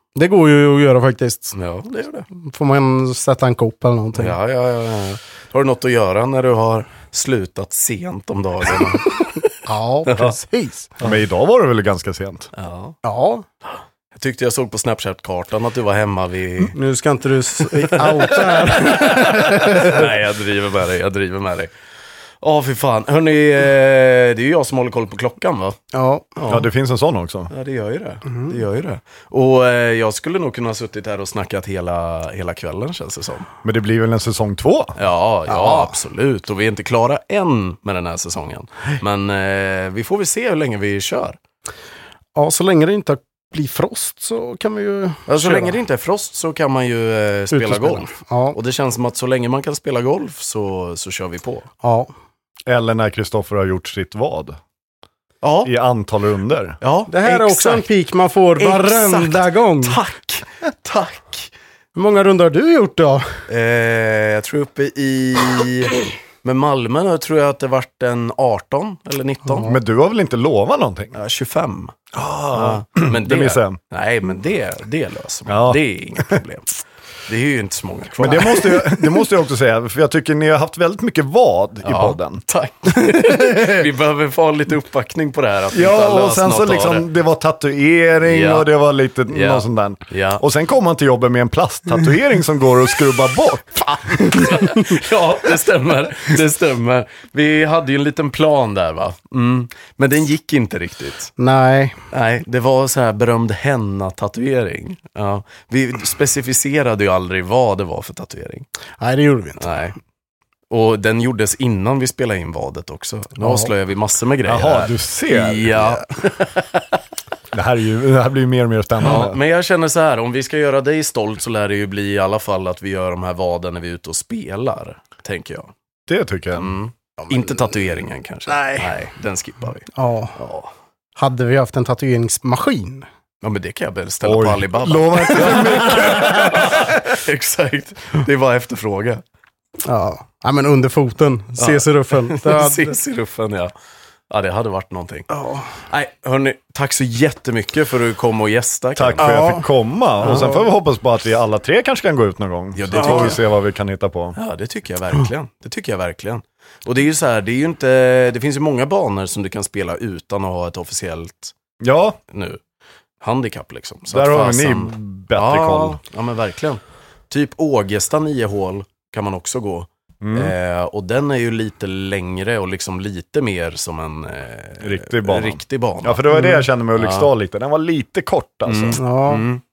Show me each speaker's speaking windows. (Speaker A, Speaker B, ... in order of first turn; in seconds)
Speaker A: 0.1-1.5, 2.3-4.4, 9.6-10.9, 13.0-13.4, 16.7-20.1, 25.9-26.5, 35.5-35.9, 42.3-45.8, 47.5-48.6, 51.8-52.1, 57.1-60.0, 61.9-63.3, 69.5-69.8, 101.4-102.0, 109.0-109.8, 113.4-113.7, 127.2-127.8, 128.5-128.9, 129.9-130.4, 131.2-133.1, 135.4-136.2, 139.8-143.0, 145.3-145.7, 149.2-149.7, 179.0-179.5
Speaker B: 1.5-2.3, 4.1-9.5, 10.1-10.3, 12.5-13.0, 13.7-16.8, 17.6-21.7, 22.4-25.8, 26.4-26.6, 27.5-33.5, 34.9-41.4, 45.3-51.7, 55.4-55.7, 56.8-57.8, 58.6-61.5, 63.5-69.8, 71.1-72.0, 72.5-79.2, 81.8-87.0, 88.2-88.7, 89.3-90.4, 94.0-101.3, 102.1-108.7, 109.6-110.0, 110.7-117.0, 119.0-125.7, 126.5-130.7, 133.4-139.2, 141.6-143.7, 144.3-145.3, 145.8-149.6, 152.8-153.4, 154.3-161.5, 162.3-162.6, 163.2-177.3, 178.7-179.6
Speaker C: 11.0-12.5, 26.5-27.5, 33.6-34.9, 52.7-54.6, 55.6-56.8, 69.7-71.1, 72.1-73.8, 75.5-76.3, 78.2-83.6, 85.7-94.5, 114.4-116.0, 117.5-119.4, 126.1-126.7, 134.2-136.7, 148.9-154.3, 161.8-162.2, 164.1-166.0, 170.2-170.5, 174.8-179.0